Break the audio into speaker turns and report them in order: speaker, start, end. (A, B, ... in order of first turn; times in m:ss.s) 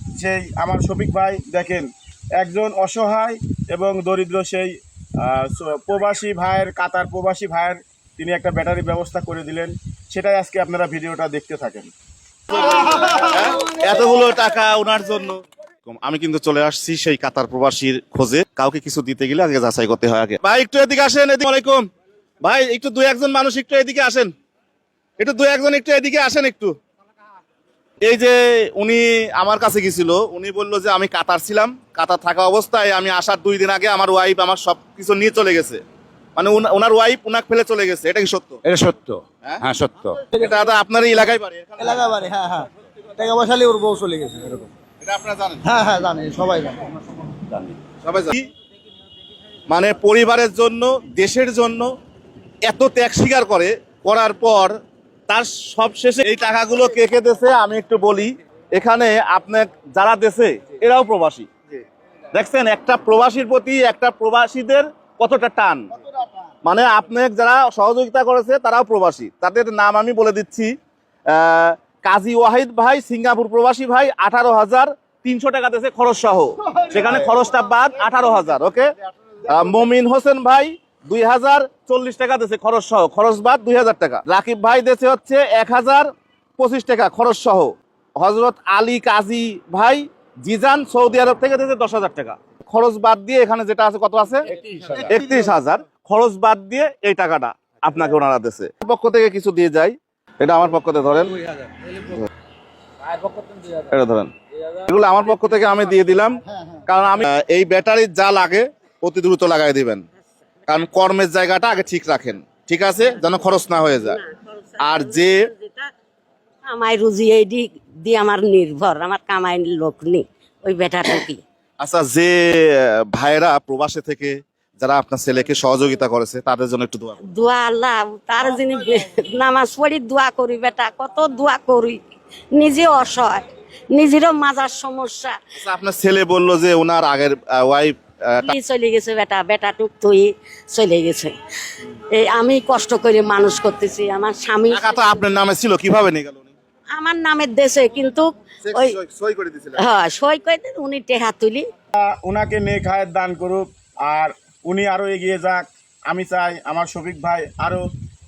0:00.2-0:11.9 A
0:12.5-0:21.8 B
0:22.4-0:24.3 B
0:25.2-0:26.8 B
0:28.0-0:35.8 B
0:36.4-0:38.6 B
0:38.6-0:40.2 C
0:40.3-0:42.2 B
0:41.8-0:44.7 D
0:45.0-0:45.7 B
0:45.6-0:47.4 D
0:47.9-0:48.5 B
0:49.7-0:51.9 B
0:52.6-0:54.8 B
0:55.3-1:01.8 B
1:02.3-1:05.8 B
1:06.6-1:10.7 B
1:11.3-1:18.9 B
1:19.4-1:42.3 B
1:34.6-1:35.1 C
1:43.4-1:50.0 B
1:50.7-1:54.2 B
1:54.0-1:55.9 E
1:54.8-1:55.4 B
1:56.7-2:01.4 E
2:01.8-2:07.2 B
2:07.3-2:12.0 E
2:12.5-2:15.4 E
2:15.6-2:18.6 B
2:18.4-2:25.2 E
2:24.7-2:26.5 B
2:26.9-2:29.0 E
2:28.6-2:29.8 B
2:29.8-2:31.6 E
2:32.0-2:37.8 A